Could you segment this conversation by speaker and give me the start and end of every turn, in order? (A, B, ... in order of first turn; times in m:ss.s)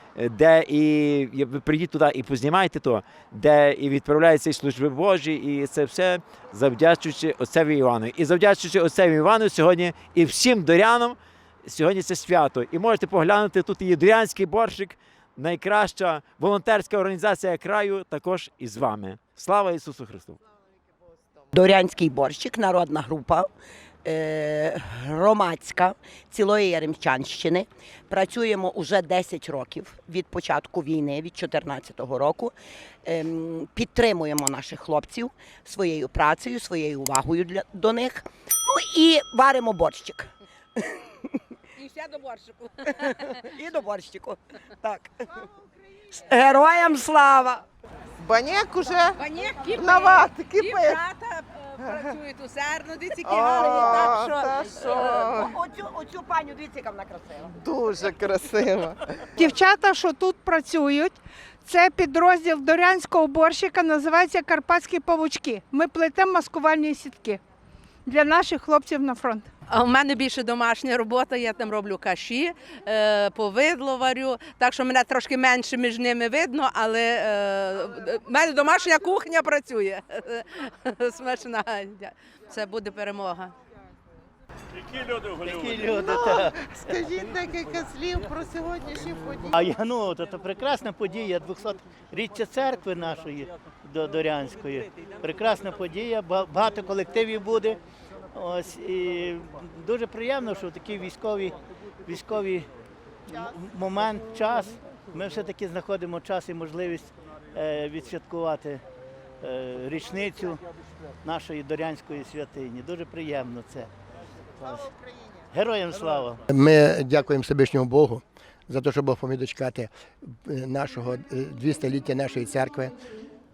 0:00.2-0:20.4 A
0:21.5-0:23.5 B
0:24.0-0:32.5 B
0:33.0-0:40.3 B
0:41.9-0:42.7 C
0:42.9-0:45.1 B
0:46.1-0:47.6 B
0:48.2-0:51.2 D
0:49.2-0:51.4 C
0:51.8-0:52.2 D
0:51.9-0:54.3 C
0:53.2-0:55.5 D
0:55.5-0:57.5 B
0:57.5-0:59.0 D
0:59.4-1:07.4 E
1:08.0-1:09.5 E
1:09.7-1:20.4 C
1:21.0-1:23.5 C
1:25.3-1:26.5 F
1:25.9-1:29.6 D
1:29.5-1:37.8 F
1:38.3-1:42.7 F
1:43.3-1:48.8 F
1:49.4-1:50.6 F
1:51.2-1:53.9 F
1:54.6-1:54.9 F
1:55.5-1:56.4 F
1:56.5-1:59.9 G
2:00.4-2:02.9 G